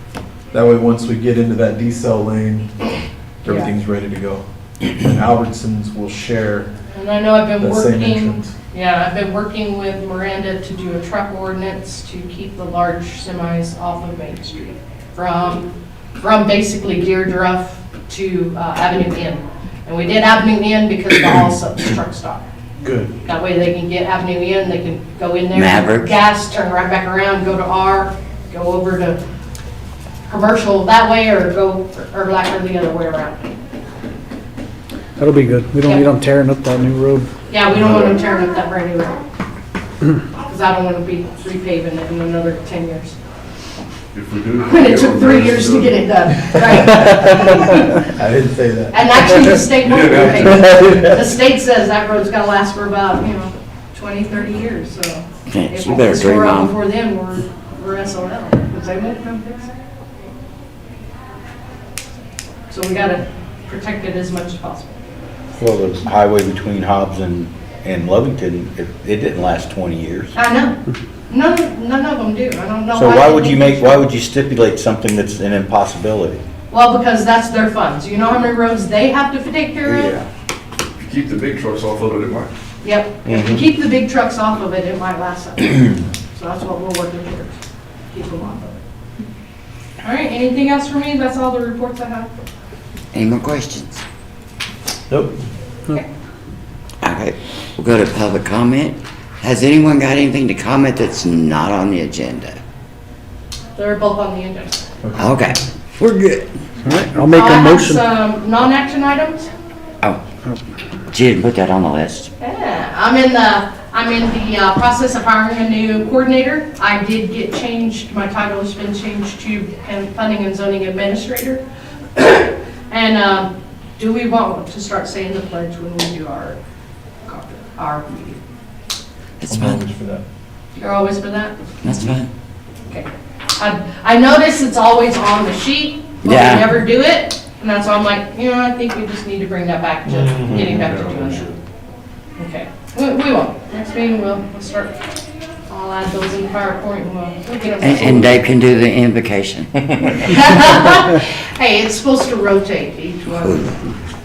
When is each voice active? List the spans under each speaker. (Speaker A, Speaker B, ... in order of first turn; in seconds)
Speaker A: 0.5-2.8, 3.4-6.7, 7.6-8.5, 22.8-23.1, 46.7-49.0, 95.1-95.4, 105.0-105.3, 129.5-130.2
Speaker B: 3.5-3.7, 6.9-15.7, 16.2-22.4, 23.3-29.2, 30.3-33.5, 37.5-39.2, 40.5-43.1, 44.6-48.0, 48.9-59.7, 62.7-65.0, 70.3-70.8, 71.3-74.0, 76.7-80.2, 82.8-87.6, 88.1-88.8, 90.0-92.3, 103.8-104.9, 107.3-109.5, 112.4-121.6, 122.2-126.6, 127.3-128.4, 130.8-131.7, 132.9-141.5, 142.4-145.0, 145.7-148.4, 150.2-153.7
Speaker C: 25.5-26.1, 55.5-56.7, 93.1-94.0, 97.0-102.6, 105.2-106.4, 111.1-112.3, 129.4-129.8, 131.8-132.3, 136.2-136.7, 147.8-150.3, 153.3-153.8
Speaker D: 35.2-37.3, 106.0-108.0
Speaker E: 37.8-38.1, 44.1-46.0, 49.7-50.9, 81.0-82.5, 140.5-141.6
Speaker F: 65.6-70.3, 72.9-76.4, 79.8-80.3, 83.3-83.7, 140.3-140.7